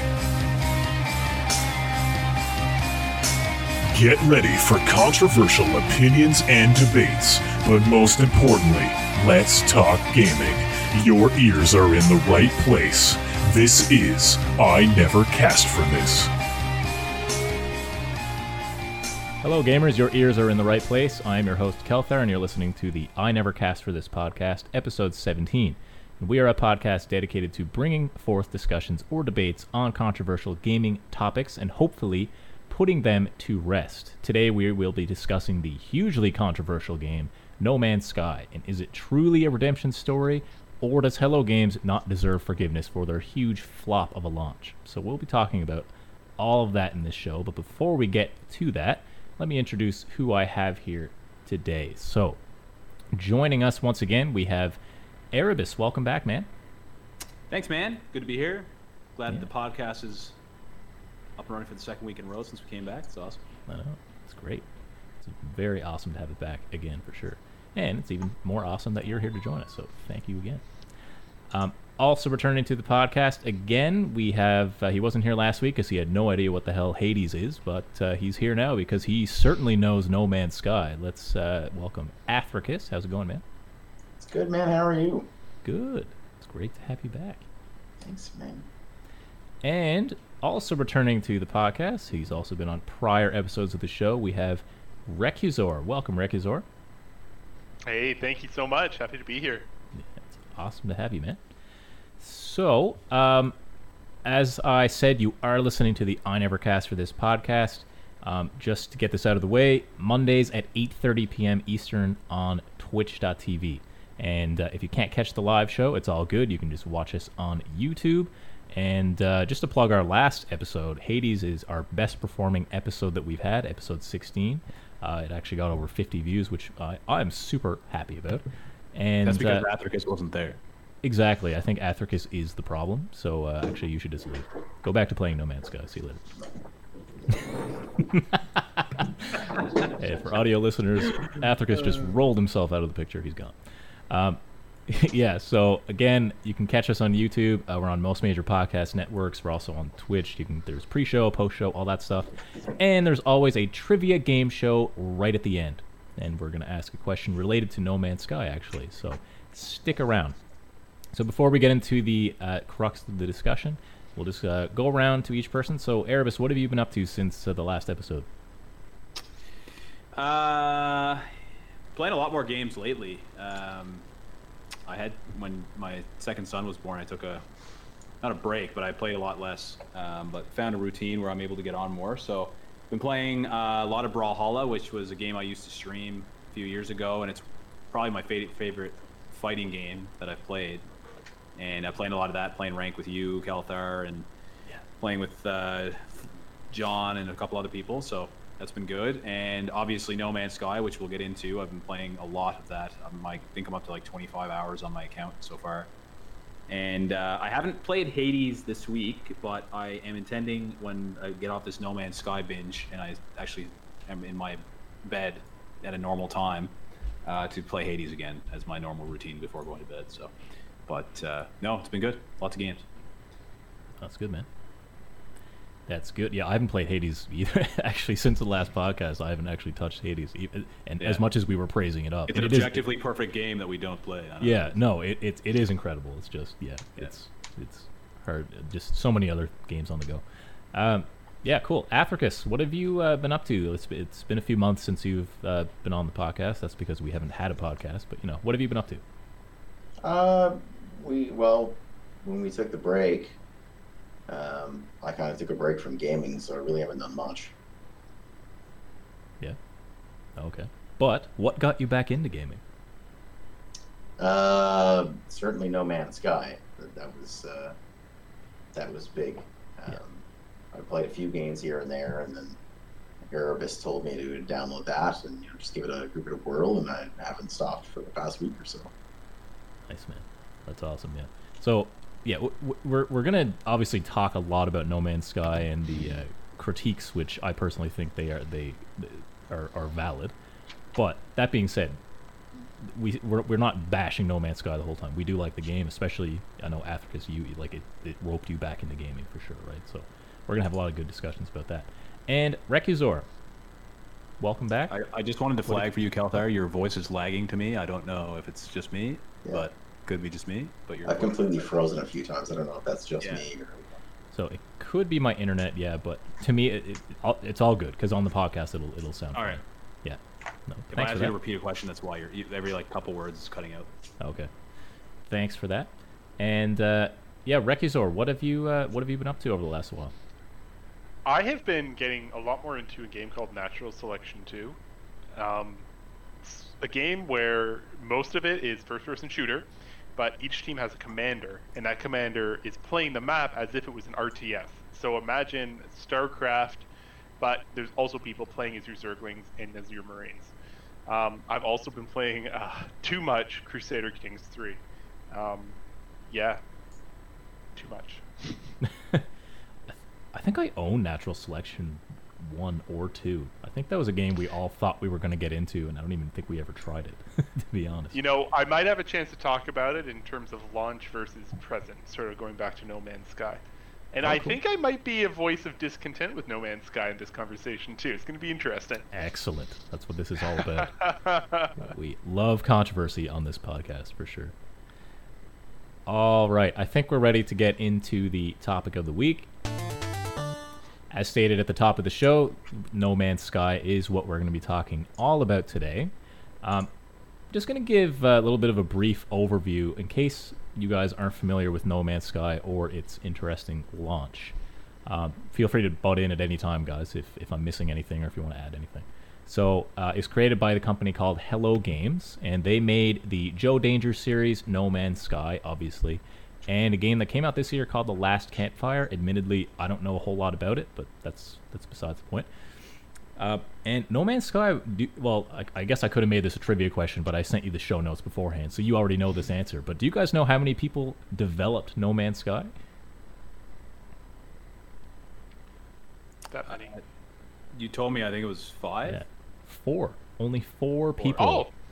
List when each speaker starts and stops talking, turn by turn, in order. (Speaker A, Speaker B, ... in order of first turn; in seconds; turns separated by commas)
Speaker A: 3.9-16.3, Speaker B: 19.4-52.4, Speaker B: 53.1-54.8, Speaker B: 55.3-56.5, Speaker C: 57.5-60.4, Speaker C: 61.4-63.4, Speaker B: 63.7-64.7, Speaker B: 65.2-70.6, Speaker B: 71.5-83.4, Speaker D: 84.2-85.3, Speaker B: 85.6-87.4, Speaker D: 88.0-88.7, Speaker B: 89.6-96.6, Speaker E: 97.8-99.7, Speaker B: 99.9-101.4, Speaker B: 102.2-103.5, Speaker B: 104.2-129.7, Speaker C: 129.2-130.6, Speaker B: 131.0-136.2, Speaker B: 138.0-143.6, Speaker B: 144.1-160.4, Speaker B: 161.1-168.3, Speaker C: 170.1-171.3, Speaker C: 171.9-174.1, Speaker C: 174.9-177.4, Speaker C: 178.2-190.8, Speaker C: 191.6-194.3, Speaker C: 195.0-205.9, Speaker C: 206.7-216.7, Speaker C: 217.2-220.3, Speaker C: 220.9-222.8, Speaker B: 224.0-224.4, Speaker B: 225.9-232.8, Speaker C: 232.3-234.7, Speaker B: 234.4-249.0, Speaker D: 250.0-253.4, Speaker D: 254.3-257.5, Speaker B: 260.4-262.6, Speaker D: 264.2-267.7, Speaker D: 268.7-272.6, Speaker D: 273.2-278.9, Speaker B: 279.9-290.3, Speaker B: 290.9-292.0, Speaker B: 292.6-303.3, Speaker B: 304.4-304.9, Speaker C: 304.9-311.7, Speaker D: 311.0-313.9, Speaker C: 313.2-313.5, Speaker B: 314.3-321.4, Speaker C: 319.3-319.6, Speaker C: 320.9-323.9, Speaker B: 324.2-324.5, Speaker B: 325.3-330.1, Speaker E: 331.2-334.8, Speaker E: 335.4-335.9, Speaker E: 336.4-346.9, Speaker E: 347.4-350.5, Speaker E: 351.1-354.8, Speaker E: 355.3-355.8, Speaker E: 356.3-356.6, Speaker E: 357.7-358.6, Speaker B: 358.8-359.3, Speaker B: 359.9-368.2, Speaker E: 368.1-373.6, Speaker E: 374.1-379.1, Speaker B: 374.2-374.6, Speaker B: 379.1-380.9, Speaker E: 380.6-381.8, Speaker B: 381.8-384.5, Speaker B: 386.1-389.5, Speaker B: 391.1-396.1, Speaker B: 396.6-396.9, Speaker B: 397.5-422.5, Speaker B: 423.4-432.7, Speaker E: 436.5-437.0, Speaker C: 436.7-437.0, Speaker C: 437.7-439.2, Speaker B: 439.0-441.7, Speaker E: 441.2-441.7